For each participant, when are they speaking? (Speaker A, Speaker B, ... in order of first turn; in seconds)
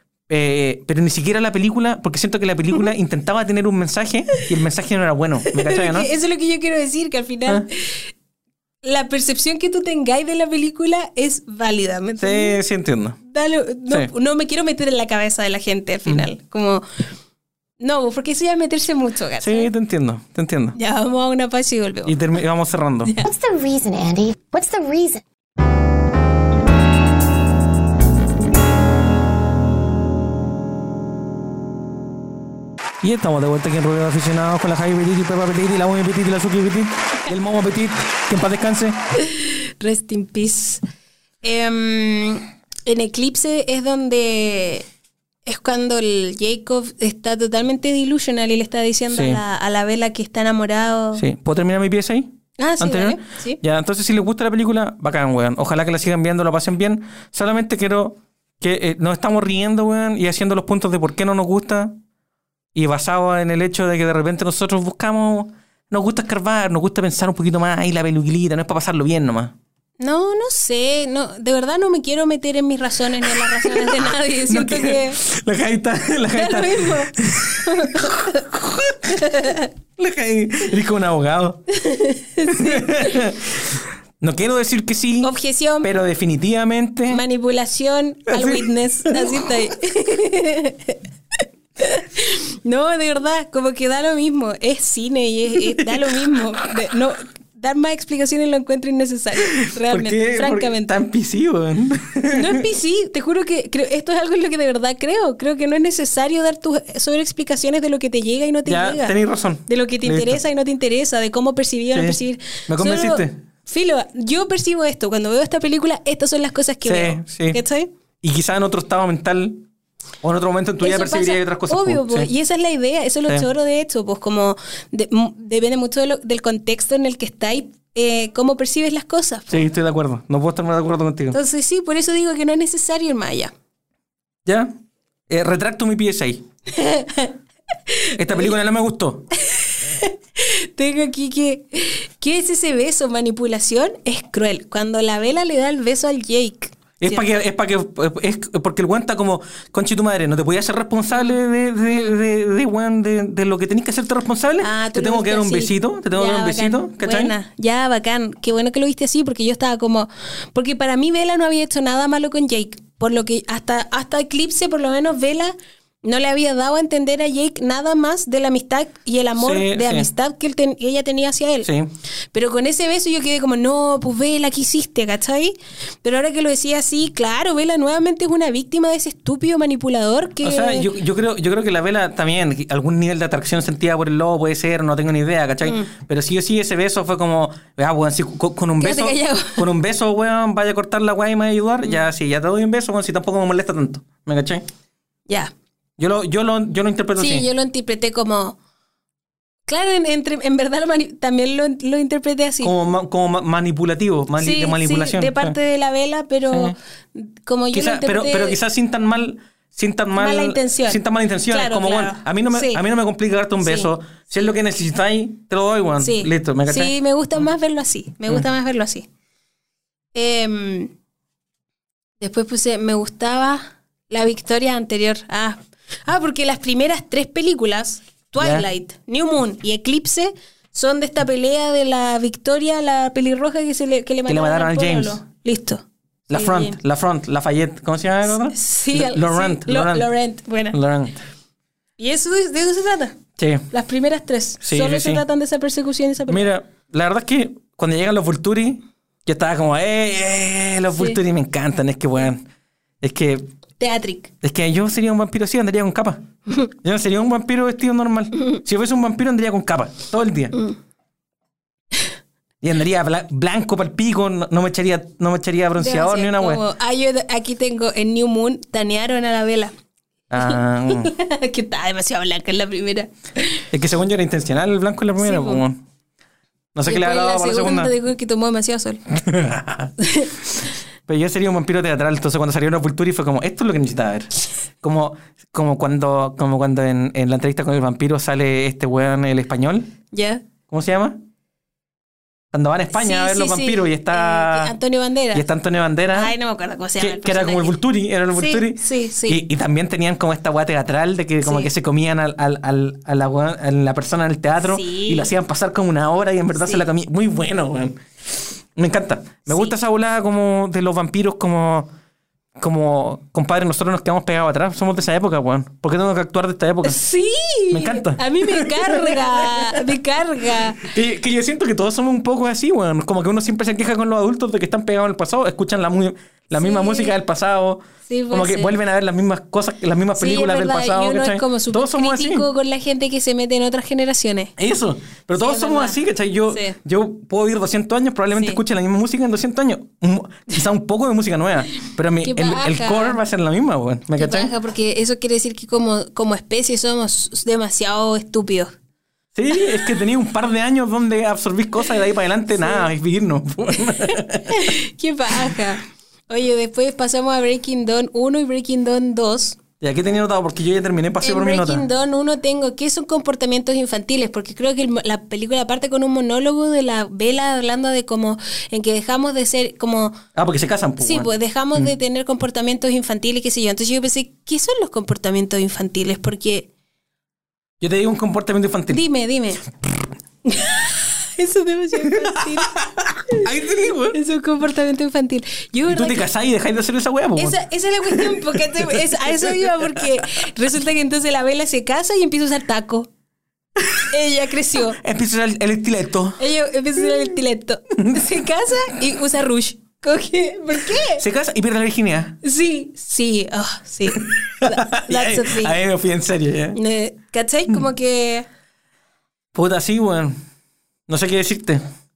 Speaker A: 0.3-6.1, 12.2-13.2, 19.4-20.8, 22.1-23.1, 33.0-39.0, 49.1-49.4, 51.1-62.0, 62.8-69.5, 73.4-79.3, 80.0-81.6, 82.5-87.2, 88.3-89.5, 95.6-96.5, 99.4-102.7, 108.7-110.4, 111.9-113.4, 116.8-117.6, 118.2-119.7, 120.2-122.3, 129.5-131.4, 134.5-134.7, 135.3-136.4, 138.2-139.3, 147.0-157.3, 169.4-170.1, 171.6-171.9, 180.4-194.7, 196.0-197.5, 202.6-205.6, 206.5-206.8, 207.7-216.9, 228.4-228.7, 234.3-235.2, 236.3-240.1, 240.7-241.2, 243.4-243.7, 244.6-245.2, 246.3-252.4, 253.0-253.4, 254.4-260.6, 262.6-266.6, 270.3-271.1, 273.7-275.8, 276.8-277.9, 279.1-279.9, 280.5-289.9, 290.7-291.2, 292.5-294.7, 295.3-296.3, 297.0-308.0, 308.8-311.9, 312.6-317.0, 317.7-320.0, 320.6-332.5, 334.6-344.5, 349.4-354.8, 359.8-361.9, 370.4-371.9, 377.8-379.0, 382.0-384.2, 385.9-390.2, 393.8-394.1, 394.7-396.4, 397.0-397.3, 398.0-398.3, 401.0-402.4, 404.1-406.8, 409.5-410.4, 411.1-411.8
Speaker B: 5.5-8.1, 8.8-12.6, 13.2-16.9, 17.8-19.7, 20.8-22.2, 23.1-23.3, 39.2-40.8, 41.4-44.9, 45.5-51.2, 52.6-53.6, 70.0-75.2, 76.3-78.5, 79.1-79.7, 81.7-83.3, 85.2-85.9, 87.1-91.0, 91.8-100.9, 102.3-109.2, 109.7-117.9, 120.8-129.7, 131.3-133.5, 136.7-137.4, 137.9-138.5, 139.4-147.3, 154.6-171.7, 172.3-180.9, 185.6-185.9, 188.8-189.7, 197.2-198.6, 199.7-202.7, 204.4-208.6, 210.2-212.8, 213.6-213.9, 216.0-219.1, 220.1-220.9, 222.2-236.8, 238.5-240.8, 242.0-243.2, 243.7-246.5, 250.9-251.2, 253.8-254.3, 265.8-269.7, 270.4-273.6, 275.2-275.6, 276.9-279.0, 280.0-280.3, 290.1-290.4, 292.9-295.5, 296.1-297.8, 298.4-299.4, 301.4-301.7, 304.6-305.3, 306.5-306.9, 309.5-309.7, 316.8-320.9, 326.5-327.1, 328.1-328.8, 330.2-334.5, 335.4-336.8, 338.4-338.6, 342.2-343.2, 344.2-348.7, 349.5-350.0, 352.6-352.9, 354.5-359.6, 361.2-370.2, 371.0-376.7, 378.9-379.7, 380.4-383.5, 384.1-386.3, 387.4-393.1, 394.0-395.0, 396.4-401.2, 402.4-405.8, 406.8-408.5
Speaker C: 23.2-25.2